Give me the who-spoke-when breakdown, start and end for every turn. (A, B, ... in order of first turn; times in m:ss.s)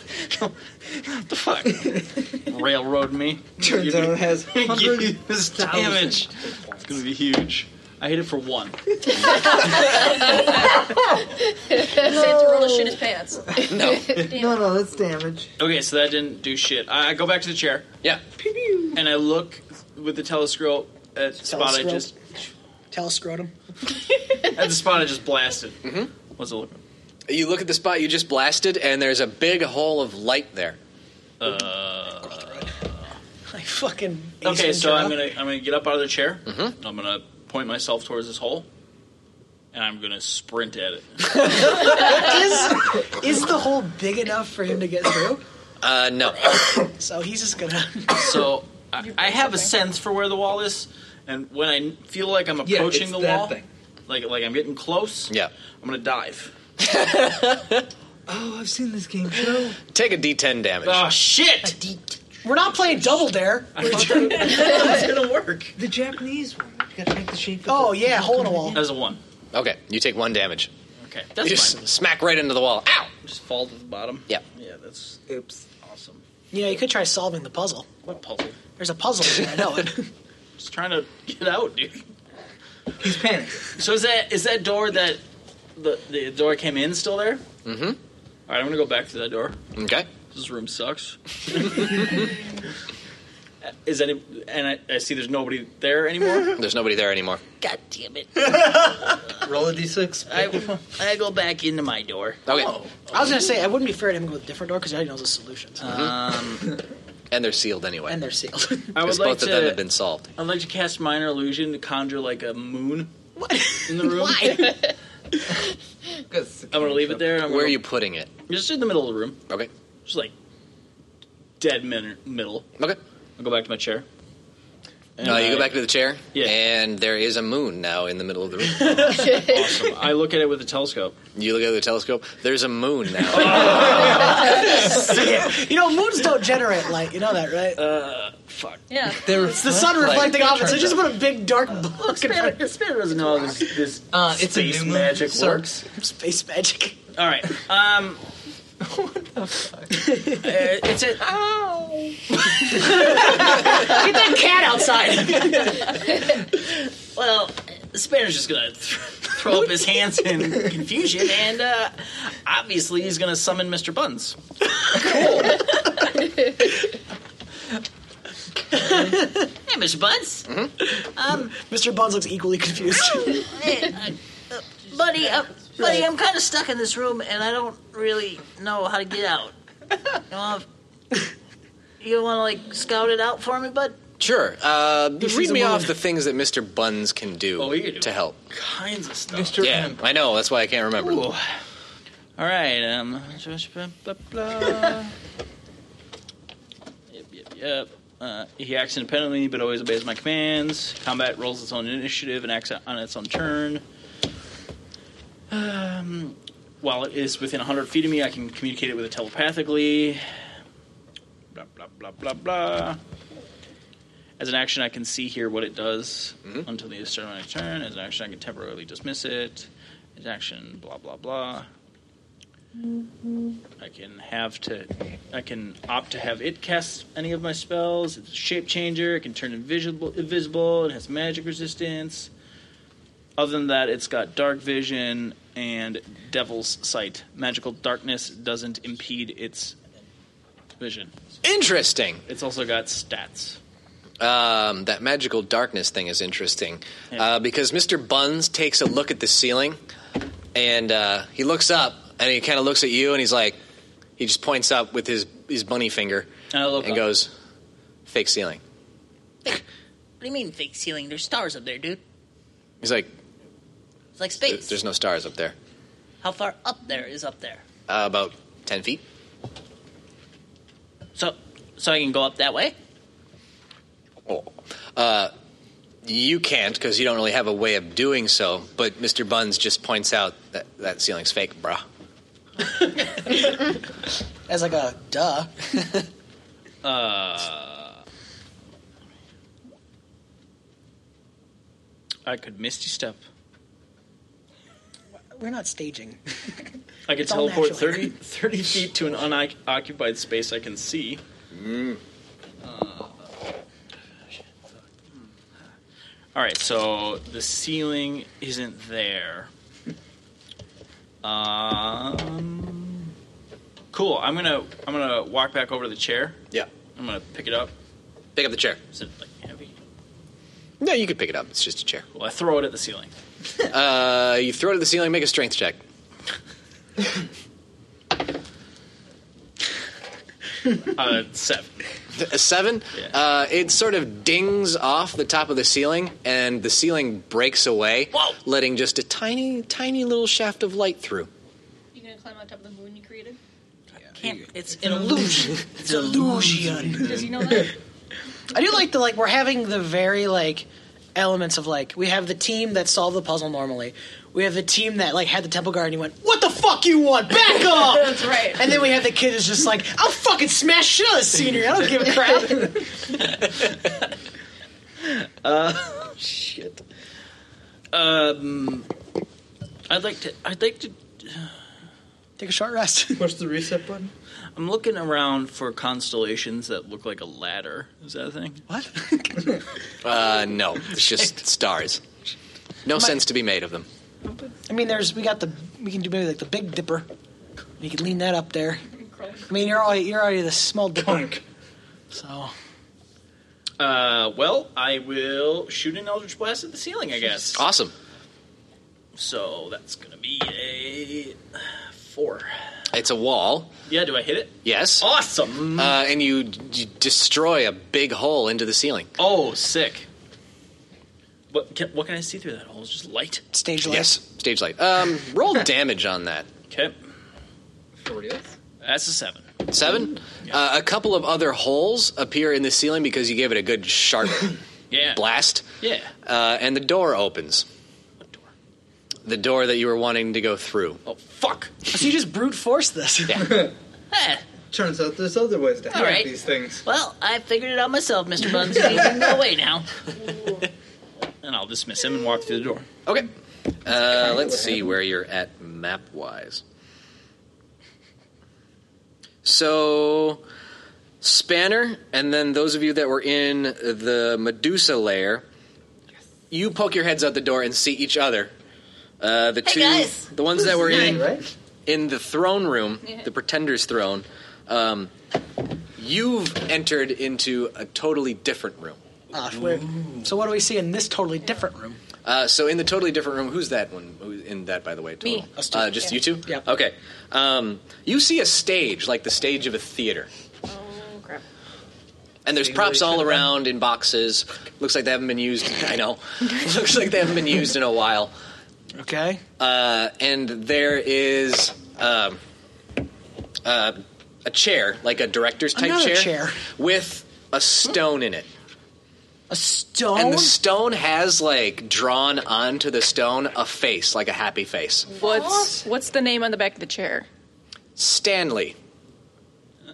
0:01.0-0:09.8 A
0:03.6-0:06.9 B
0:10.3-0:10.7 C
0:10.5-0:11.0 B
0:11.7-0:14.6 C
0:12.0-0:12.5 B
0:13.6-0:15.5 B
0:13.7-0:14.3 D
0:15.6-0:17.9 A
0:18.4-0:19.0 B
0:18.9-0:22.1 A
0:21.4-0:22.1 E
0:22.9-0:23.5 E
0:24.4-0:26.8 A
0:25.8-0:26.1 D
0:27.3-0:30.8 D
0:31.4-0:32.9 A
0:33.5-0:35.2 E
0:34.4-0:38.7 A
0:36.5-0:36.7 D
0:39.7-0:42.3 A
0:41.7-0:45.4 E
0:45.8-0:46.6 D
0:46.8-0:48.4 E
0:48.1-0:53.6 A
0:49.0-0:49.7 C
0:52.6-0:53.7 B
0:54.1-0:56.5 A
0:56.8-0:57.8 D
0:58.3-0:59.8 B
0:59.9-1:01.1 D
1:00.8-1:01.8 A
1:01.1-1:01.8 F
1:02.4-1:04.7 E
1:03.8-1:05.1 B
1:03.8-1:05.4 A
1:04.3-1:05.7 F
1:05.8-1:08.8 B
1:07.7-1:08.8 E
1:08.7-1:09.2 A
1:09.5-1:10.7 D
1:11.0-1:11.8 A
1:11.4-1:13.1 D
1:13.2-1:16.2 A
1:15.3-1:15.6 B
1:16.5-1:17.9 E
1:18.0-1:18.6 A
1:18.8-1:20.1 E
1:20.6-1:22.1 A
1:23.0-1:23.7 B
1:23.8-1:25.2 A
1:25.8-1:27.4 A
1:27.6-1:28.0 D
1:28.5-1:29.6 A
1:29.8-1:30.1 D
1:30.3-1:32.3 A
1:33.6-1:36.6 A
1:36.5-1:37.4 D
1:37.6-1:39.2 F
1:39.4-1:40.7 B
1:40.3-1:40.8 A
1:40.5-1:42.7 F
1:42.5-1:42.8 D
1:43.1-1:45.9 E
1:45.8-1:46.8 A
1:45.8-1:46.1 D
1:47.3-1:48.2 D
1:48.1-1:48.9 E
1:48.9-1:49.8 A
1:49.0-1:50.3 D
1:50.4-1:53.1 A
1:53.4-1:54.9 E
1:53.9-1:54.8 A
1:56.3-1:57.4 B
1:56.7-1:57.8 A
1:57.4-1:58.3 D
1:58.5-1:59.4 A
2:00.1-2:00.3 A
2:01.6-2:02.7 A
2:03.4-2:04.1 A
2:05.2-2:06.6 A
2:05.2-2:09.4 D
2:09.3-2:11.2 A
2:11.4-2:13.9 D
2:13.3-2:15.5 A
2:13.9-2:14.4 B
2:14.0-2:17.8 E
2:17.8-2:18.8 A
2:18.9-2:19.3 C
2:19.2-2:21.1 B
2:19.4-2:22.6 E
2:21.9-2:25.8 A
2:22.5-2:23.4 F
2:24.1-2:25.8 B
2:25.9-2:27.0 E
2:27.2-2:28.2 A
2:29.9-2:30.5 E
2:30.3-2:31.4 A
2:32.4-2:34.0 A
2:32.6-2:35.9 E
2:35.4-2:36.1 A
2:37.2-2:44.4 A
2:44.9-2:45.8 A
2:48.7-2:49.5 E
2:49.7-2:50.5 F
2:50.8-2:53.5 E
2:51.2-2:51.5 F
2:53.2-2:59.5 F
3:00.3-3:00.6 F
3:02.0-3:04.0 F
3:04.2-3:08.4 D
3:07.6-3:09.7 A
3:09.3-3:10.0 B
3:09.6-3:11.3 D
3:11.0-3:11.4 A
3:12.4-3:15.1 A
3:17.1-3:23.8 A
3:25.5-3:30.3 A
3:31.5-3:33.0 A
3:34.4-3:41.7 A
3:43.8-3:52.3 A
3:53.4-3:59.8 A
4:00.8-4:01.1 A
4:01.4-4:02.2 D
4:02.3-4:03.6 A
4:04.2-4:09.8 D
4:10.6-4:13.6 D
4:14.2-4:16.3 D
4:16.5-4:17.2 A
4:16.8-4:17.3 D
4:18.1-4:18.6 D
4:20.2-4:22.0 F
4:22.8-4:23.1 D
4:24.2-4:24.8 F
4:24.4-4:25.6 D
4:26.2-4:27.6 F
4:27.9-4:29.0 D
4:31.2-4:32.8 F
4:34.3-4:35.3 D
4:36.0-4:41.8 D
4:42.6-4:43.7 E
4:44.5-4:45.8 E
4:46.8-4:48.0 A
4:52.3-4:53.2 A
4:55.3-4:56.2 E
4:57.1-5:01.2 A
4:57.2-4:58.1 E
5:01.5-5:02.0 D
5:02.6-5:03.3 A
5:06.4-5:09.5 A
5:11.2-5:13.1 A
5:13.9-5:16.4 A
5:17.0-5:17.7 A
5:18.4-5:18.8 D
5:18.9-5:19.7 A
5:20.8-5:22.1 D
5:22.1-5:23.1 A
5:23.7-5:25.8 D
5:30.8-5:31.8 A
5:32.1-5:41.3 D
5:41.9-5:43.4 C
5:44.2-5:45.7 F
5:45.7-5:47.7 E
5:45.8-5:47.7 B
5:47.0-5:47.7 C
5:48.5-6:03.1 E
5:57.6-5:58.7 C
6:03.4-6:03.7 A
6:05.0-6:06.8 A
6:07.9-6:08.9 A
6:09.9-6:11.5 A
6:12.4-6:13.3 E
6:13.2-6:14.1 B
6:14.6-6:18.6 A
6:18.7-6:19.6 E
6:20.0-6:22.0 D
6:22.8-6:23.9 D
6:24.7-6:27.1 E
6:27.8-6:28.8 E
6:29.5-6:31.4 E
6:31.0-6:31.4 B
6:32.1-6:32.5 E
6:33.8-6:37.6 A
6:37.5-6:37.9 D
6:39.2-6:42.5 A
6:42.9-6:43.7 D
6:43.9-6:46.0 A
6:44.6-6:45.1 D
6:45.7-6:49.1 D
6:49.2-6:50.1 A
6:51.5-6:53.4 A
6:53.5-6:54.2 E
6:53.8-6:56.5 D
6:56.7-6:57.0 A
6:58.0-6:58.5 B
6:58.8-6:59.5 A
6:59.7-7:04.6 D
7:04.9-7:05.2 A
7:05.1-7:05.6 D
7:05.8-7:06.1 A
7:06.2-7:07.7 D
7:09.2-7:11.0 D
7:11.1-7:11.7 A
7:11.9-7:13.6 E
7:13.4-7:13.7 B
7:14.1-7:14.4 F
7:14.7-7:16.8 B
7:15.9-7:19.9 F
7:21.4-7:22.8 A
7:23.8-7:26.6 D
7:29.4-7:30.4 D
7:31.2-7:35.4 D
7:36.5-7:38.5 D
7:39.2-7:45.1 D
7:39.6-7:40.3 F
7:40.6-7:41.4 B
7:46.0-7:49.0 D
7:49.3-7:52.0 E
7:52.2-8:00.3 D
7:55.6-7:56.6 E
8:00.7-8:01.4 C
8:02.4-8:08.3 D
8:02.6-8:03.4 B
8:09.0-8:09.4 E
8:09.6-8:12.4 D
8:13.6-8:18.5 D
8:15.8-8:16.6 E
8:19.5-8:20.5 E
8:20.1-8:25.1 D
8:25.2-8:27.3 C
8:28.0-8:28.8 D